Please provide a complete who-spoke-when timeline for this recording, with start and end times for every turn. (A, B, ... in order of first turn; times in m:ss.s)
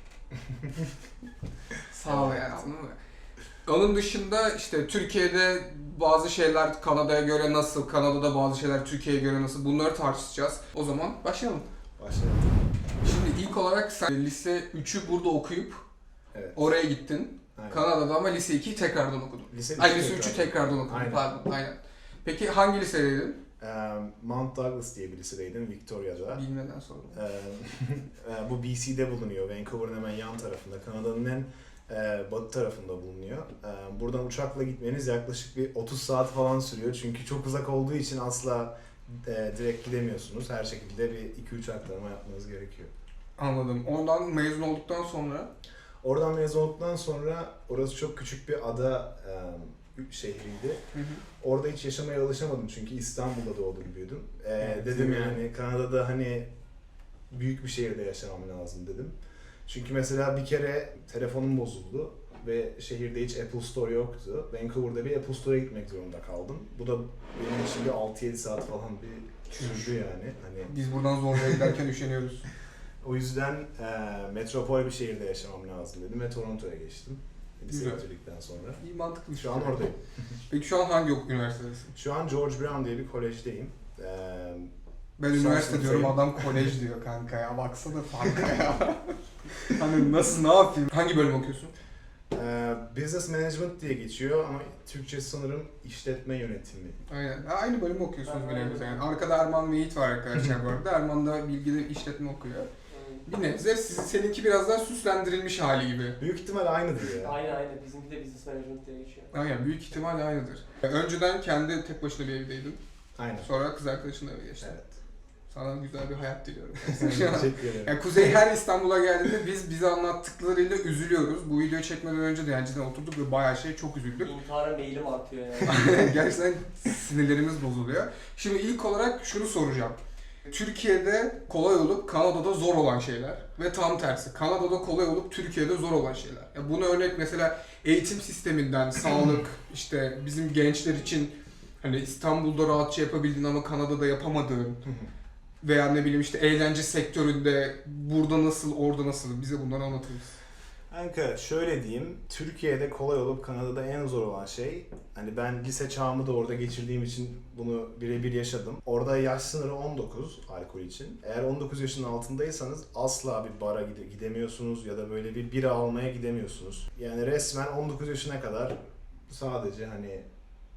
0:01.9-0:03.0 A
0:02.1-0:02.5 B
0:03.6-0:11.7 A
0:12.0-0:12.5 B
0:13.0-0:15.8 A
0:16.3-0:16.7 B
0:16.5-0:23.4 A
0:17.6-0:17.9 B
0:19.5-0:21.3 B
0:23.6-0:26.4 B
0:26.3-0:27.2 A
0:27.1-0:42.9 B
0:43.4-0:45.5 A
0:46.0-0:50.8 B
0:50.9-0:51.2 A
0:51.4-0:56.5 B
0:54.6-0:55.4 A
0:57.3-0:59.1 B
0:59.6-1:10.7 B
1:09.5-1:10.0 A
1:10.6-1:12.5 A
1:11.5-1:11.7 B
1:13.0-1:18.8 B
1:17.7-1:18.0 A
1:18.8-1:19.8 A
1:19.4-1:20.0 B
1:20.5-1:21.9 A
1:21.9-1:24.7 B
1:25.2-1:31.7 A
1:25.3-1:26.7 B
1:32.3-1:37.0 B
1:37.1-1:42.7 A
1:38.2-1:39.1 C
1:42.9-1:43.2 C
1:43.2-1:46.2 A
1:46.2-1:47.4 B
1:47.1-1:49.3 C
1:49.3-1:52.8 A
1:53.2-1:53.5 B
1:53.4-1:54.8 A
1:54.6-1:54.9 B
1:55.5-2:04.3 A
1:56.8-1:58.4 B
2:04.2-2:06.0 C
2:05.6-2:24.8 A
2:24.8-2:25.1 B
2:25.6-2:30.3 A
2:30.9-2:48.8 B
2:49.3-2:50.2 B